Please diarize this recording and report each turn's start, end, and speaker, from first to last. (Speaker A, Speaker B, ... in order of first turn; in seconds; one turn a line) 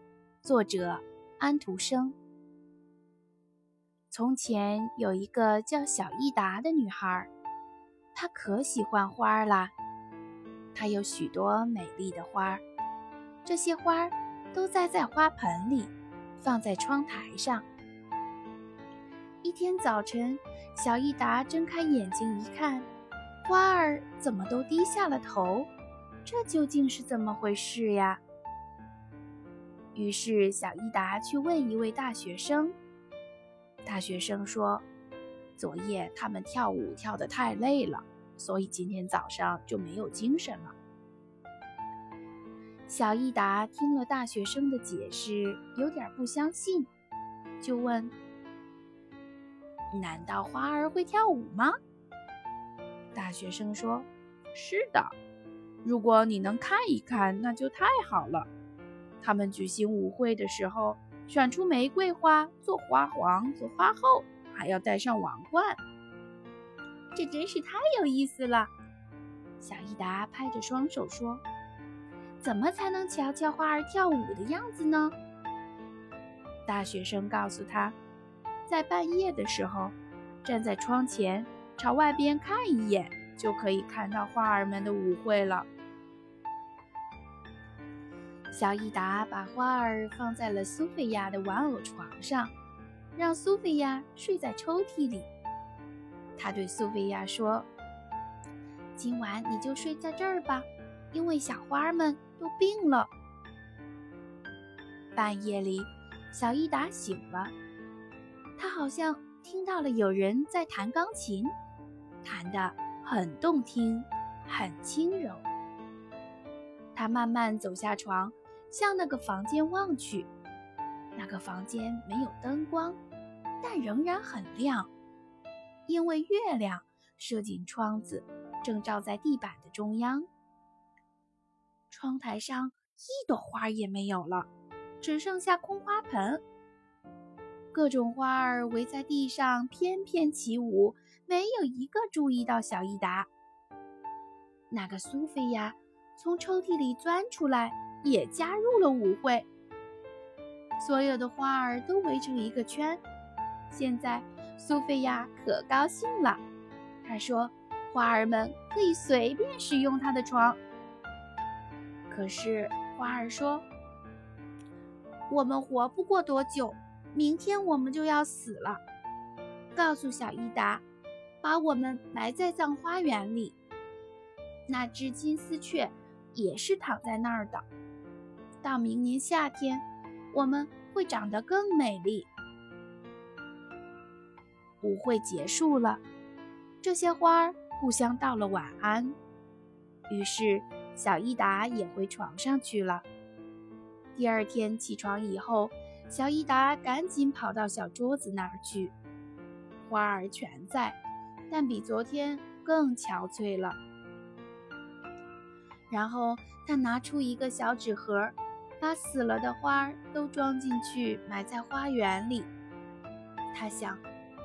Speaker A: 0.4-2.2
Speaker A: 4.1-7.3
Speaker A: 8.1-9.7
Speaker A: 10.7-12.6
Speaker A: 13.4-17.7
Speaker A: 19.4-22.9
Speaker A: 23.4-25.7
Speaker A: 26.2-28.2
Speaker A: 29.9-32.8
Speaker A: 33.9-34.9
Speaker A: 35.6-40.7
Speaker A: 42.9-46.9
Speaker A: 47.6-48.1
Speaker A: 49.9-51.8
Speaker A: 53.1-55.1
Speaker A: 55.8-58.5
Speaker A: 59.2-65.8
Speaker A: 67.1-68.7
Speaker A: 69.6-71.4
Speaker A: 72.4-75.2
Speaker A: 76.7-78.0
Speaker A: 78.7-85.7
Speaker A: 88.5-92.5
Speaker A: 93.2-95.3
Speaker A: 96.4-97.7
Speaker A: 99.0-103.1
Speaker A: 105.2-107.5
Speaker A: 108.6-111.5
Speaker A: 112.2-115.5
Speaker A: 117.0-120.3
Speaker A: 121.2-123.0
Speaker A: 123.6-124.9
Speaker A: 125.9-130.3
Speaker A: 131.9-134.5
Speaker A: 135.0-136.4
Speaker A: 137.7-143.3
Speaker A: 144.7-149.5
Speaker A: 150.8-153.0
Speaker A: 153.7-156.4
Speaker A: 157.0-160.6
Speaker A: 162.1-163.7
Speaker A: 165.3-168.8
Speaker A: 169.7-170.8
Speaker A: 171.4-173.6
Speaker A: 174.7-177.7
Speaker A: 178.6-182.3
Speaker A: 184.8-186.0
Speaker A: 186.8-189.2
Speaker A: 190.1-193.1
Speaker A: 194.2-198.9
Speaker A: 199.8-201.0
Speaker A: 201.5-203.8
Speaker A: 205.9-212.5
Speaker A: 213.5-214.0